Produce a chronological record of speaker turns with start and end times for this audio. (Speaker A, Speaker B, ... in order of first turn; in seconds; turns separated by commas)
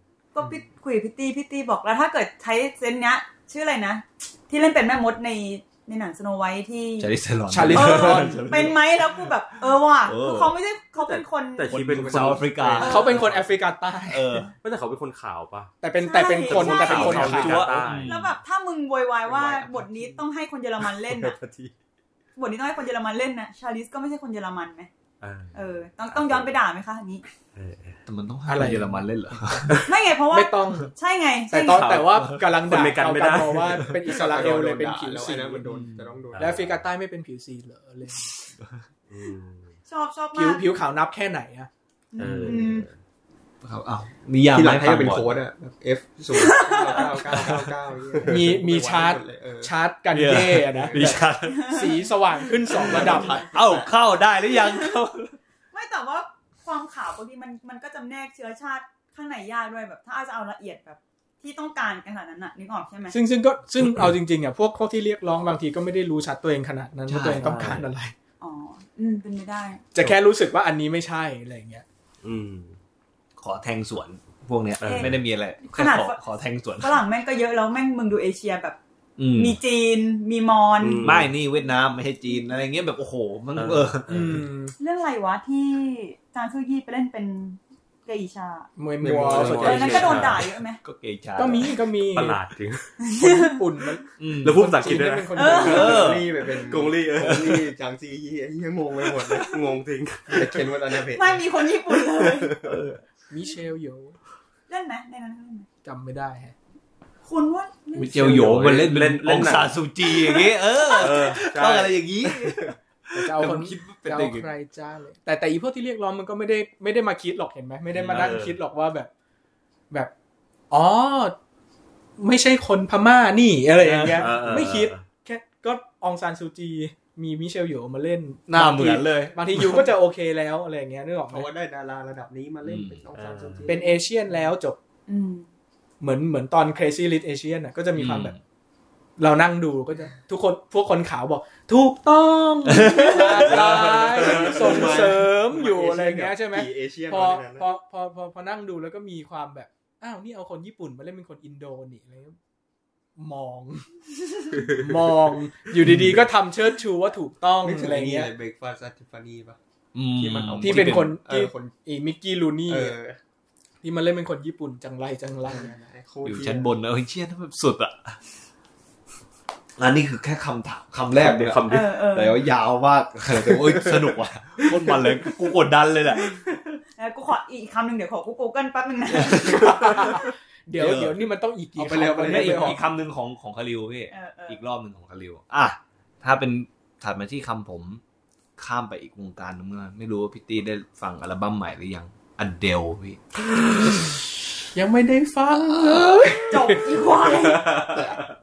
Speaker A: 0.3-7.1, Speaker B: 7.0-8.8, Speaker C: 7.5-8.5, Speaker A: 7.7-11.8, Speaker B: 10.1-10.6, Speaker D: 11.0-13.5, Speaker B: 11.7-13.2, Speaker E: 11.9-12.8, Speaker A: 12.7-13.2, Speaker C: 12.8-14.4, Speaker B: 14.1-14.5, Speaker D: 14.6-15.7, Speaker C: 15.8-17.6, Speaker A: 16.0-17.3, Speaker D: 16.5-18.3, Speaker B: 16.8-18.3, Speaker A: 18.1-21.4, Speaker E: 19.3-20.2, Speaker D: 21.1-21.7, Speaker A: 22.4-24.9, Speaker D: 25.2-26.6, Speaker A: 25.6-27.2, Speaker D: 27.6-28.0, Speaker B: 28.1-29.8, Speaker C: 28.5-29.1, Speaker D: 29.7-29.9, Speaker A: 29.9-31.9, Speaker C: 30.3-30.9, Speaker C: 31.5-35.6, Speaker D: 31.7-33.9, Speaker B: 32.0-32.6, Speaker E: 34.0-36.8, Speaker B: 35.6-36.2, Speaker D: 36.3-36.7, Speaker C: 36.4-38.3, Speaker D: 39.1-39.7, Speaker A: 39.9-40.7, Speaker C: 40.3-41.7, Speaker A: 42.1-42.9, Speaker D: 42.2-43.0, Speaker B: 43.6-45.4, Speaker E: 44.5-49.7, Speaker A: 46.3-47.4, Speaker B: 47.2-47.7, Speaker C: 48.3-53.4, Speaker B: 50.1-51.9, Speaker D: 50.9-51.2, Speaker A: 51.5-52.0, Speaker E: 52.7-53.9, Speaker B: 52.9-55.4, Speaker A: 54.5-55.0, Speaker A: 55.7-63.2, Speaker C: 63.1-68.2, Speaker B: 67.1-67.8, Speaker D: 67.4-67.8, Speaker A: 68.4-69.9, Speaker C: 70.0-71.8, Speaker D: 72.2-72.8, Speaker B: 73.4-77.0, Speaker D: 74.8-75.2, Speaker A: 74.8-76.2, Speaker A: 76.8-78.8, Speaker B: 79.2-79.6, Speaker A: 79.3-81.1, Speaker D: 80.8-81.4, Speaker B: 81.0-84.1, Speaker D: 83.5-84.4, Speaker C: 84.1-84.8, Speaker A: 84.8-88.7, Speaker C: 88.8-90.3, Speaker E: 89.0-90.3, Speaker B: 89.4-90.3, Speaker D: 89.4-90.5, Speaker A: 89.6-90.8, Speaker B: 90.8-91.8, Speaker C: 91.4-92.4, Speaker D: 92.1-93.0, Speaker A: 93.0-93.6, Speaker C: 93.1-96.1, Speaker B: 94.2-95.0, Speaker D: 94.4-97.7, Speaker A: 95.3-95.9, Speaker B: 95.6-96.3, Speaker E: 95.6-99.6, Speaker D: 99.3-100.7, Speaker E: 100.3-102.8, Speaker A: 101.0-102.6, Speaker B: 102.6-103.0, Speaker C: 103.3-104.2, Speaker A: 104.7-105.7, Speaker C: 105.8-106.5, Speaker A: 107.2-108.6, Speaker B: 108.0-114.5, Speaker D: 108.4-109.8, Speaker A: 110.0-111.3, Speaker D: 111.0-112.6, Speaker C: 113.1-119.1, Speaker D: 118.0-118.6, Speaker B: 118.0-118.3, Speaker C: 120.7-121.3, Speaker C: 122.2-131.5, Speaker B: 123.8-124.6, Speaker D: 124.2-125.0, Speaker B: 128.5-129.9, Speaker E: 131.3-133.9, Speaker B: 132.7-133.1, Speaker D: 133.2-133.7, Speaker C: 133.7-134.8, Speaker A: 135.1-135.5, Speaker C: 136.0-138.3, Speaker B: 138.0-138.4, Speaker C: 139.2-152.4, Speaker B: 142.7-143.7, Speaker E: 143.4-147.7, Speaker C: 153.2-153.9, Speaker C: 154.6-158.3, Speaker E: 157.6-159.6, Speaker B: 159.9-161.2, Speaker E: 160.1-161.7, Speaker C: 160.6-163.0, Speaker E: 162.7-163.2, Speaker C: 163.8-165.7, Speaker E: 165.4-166.8, Speaker B: 166.2-168.2, Speaker B: 169.8-176.3, Speaker D: 171.1-171.9, Speaker A: 171.7-172.4, Speaker D: 173.3-174.8, Speaker A: 176.1-180.1, Speaker B: 179.1-179.6, Speaker C: 179.2-182.8, Speaker B: 180.8-181.2, Speaker E: 181.8-182.8, Speaker B: 182.2-188.0, Speaker A: 184.1-184.6, Speaker B: 188.6-193.2, Speaker C: 194.7-197.0, Speaker A: 196.5-197.7, Speaker D: 197.3-198.1